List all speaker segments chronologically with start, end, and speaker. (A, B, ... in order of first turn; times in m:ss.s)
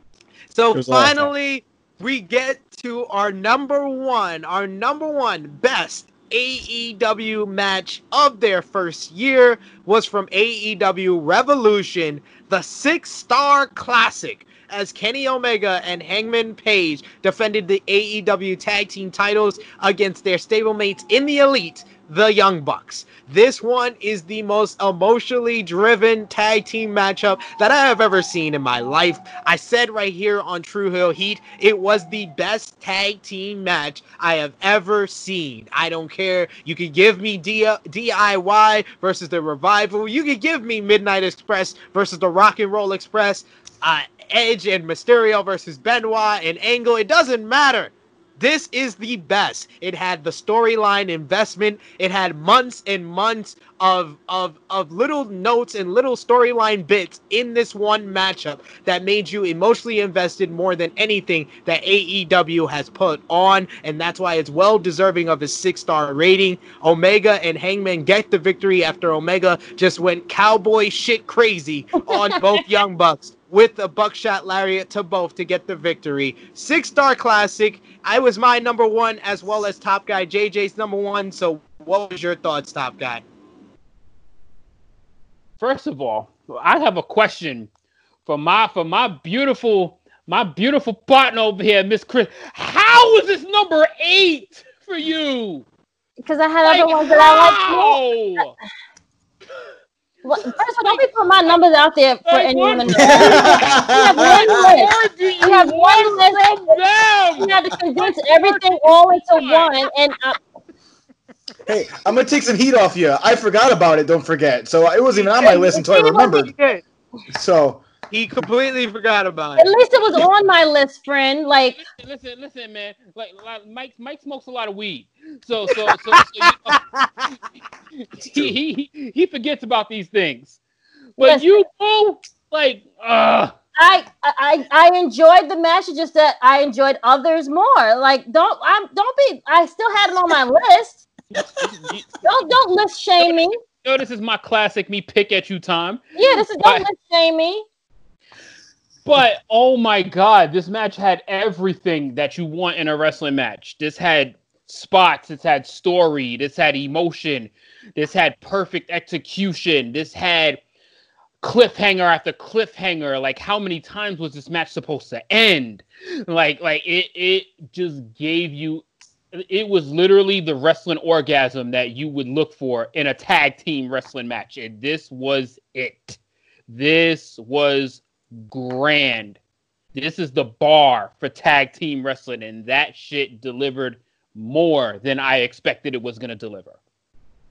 0:00.5-1:23.2 A
0:00.7-0:01.3 B
1:12.1-1:12.4 C
1:25.6-1:27.7 D
1:28.3-1:35.7 D
1:36.2-1:38.0 C
1:36.6-1:38.5 D
1:40.2-1:46.8 C
1:40.4-1:41.0 D
1:42.3-1:49.8 D
1:43.0-1:44.7 B
1:47.4-1:50.4 C
1:51.7-1:56.5 B
1:55.1-1:56.8 A
1:57.3-1:57.9 B
1:58.1-1:59.7 A
1:59.6-2:01.8 C
2:01.8-2:06.8 D
2:05.7-2:07.3 A
2:08.2-2:10.6 D
2:11.2-2:13.5 D
2:13.8-2:21.0 C
2:21.3-2:22.4 D
2:21.4-2:21.7 B
2:22.2-2:23.6 C
2:23.8-2:26.0 D
2:26.2-2:27.6 C
2:26.6-2:26.8 D
2:29.0-2:40.6 D
2:41.4-2:59.4 D
2:59.9-3:06.8 D